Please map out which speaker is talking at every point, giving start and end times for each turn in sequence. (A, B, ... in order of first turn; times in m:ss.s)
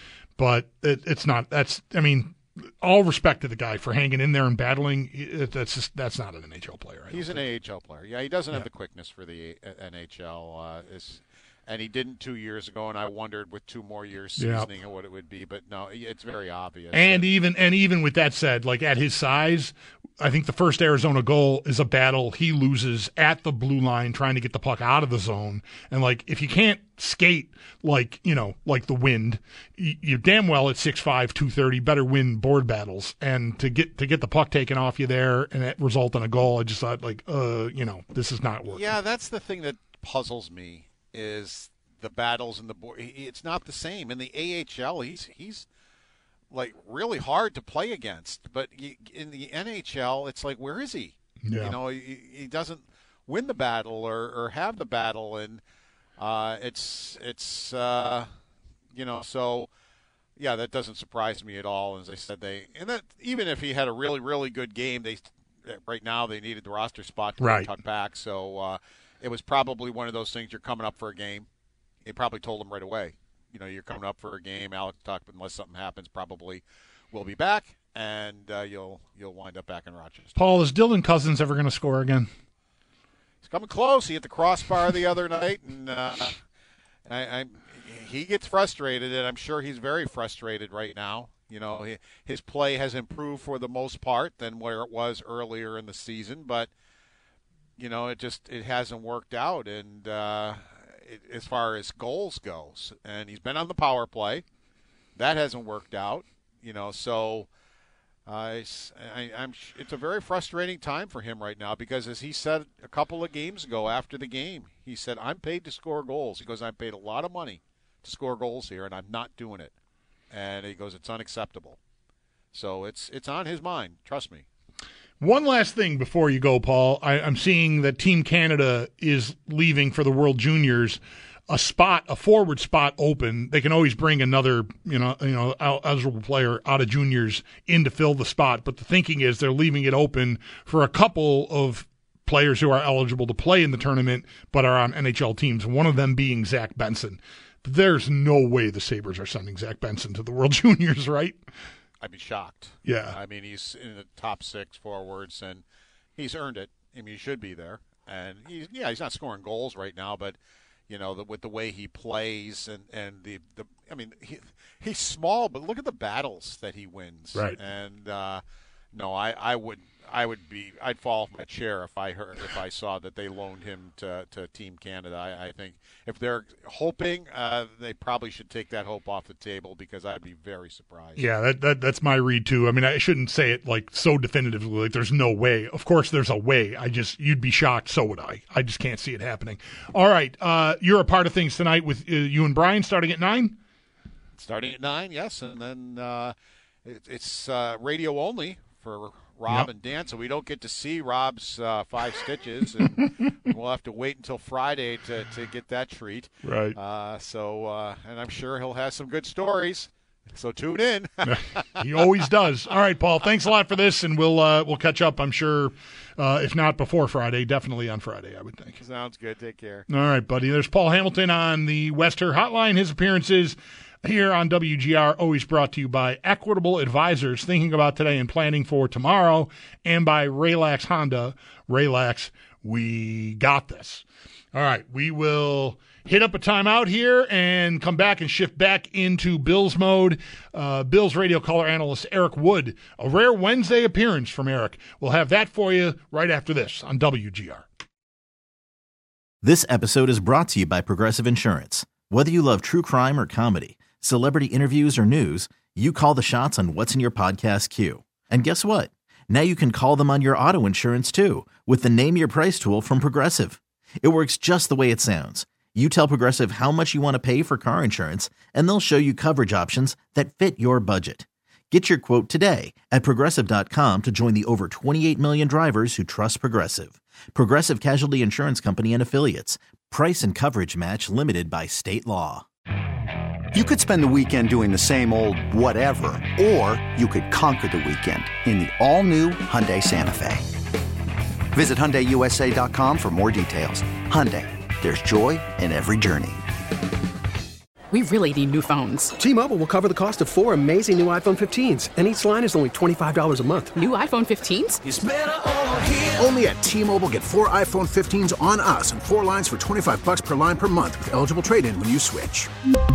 0:00.4-0:07.4 A
0:07.1-0:17.3 B
0:14.4-0:14.7 A
0:16.9-0:38.9 A
0:38.7-0:45.6 B
0:46.5-0:55.6 B
0:51.4-0:51.7 A
0:56.2-0:58.3 B
0:58.9-0:59.7 B
1:00.4-1:11.5 B
1:07.4-1:07.7 A
1:12.0-1:20.4 B
1:20.4-1:22.3 A
1:23.4-1:26.3 B
1:27.1-1:36.7 B
1:37.8-1:44.4 B
1:45.2-1:47.5 B
1:48.2-1:59.7 B
2:00.3-2:01.8 B
2:02.5-2:04.4 B
2:05.2-2:31.4 A
2:32.0-2:35.6 B
2:32.8-2:33.2 A
2:36.2-2:40.4 B
2:40.9-2:48.4 B
2:48.9-3:01.2 B
3:01.2-3:13.6 A
3:14.3-3:31.7 B
3:26.4-3:26.8 A
3:31.3-3:38.8 A
3:38.8-3:39.8 B
3:39.9-4:07.6 A
4:09.4-4:42.4 C
4:43.5-4:50.4 D
4:51.5-4:56.4 D
4:57.9-4:59.1 E
4:59.2-5:03.8 F
5:03.8-5:04.8 E
5:04.8-5:12.5 G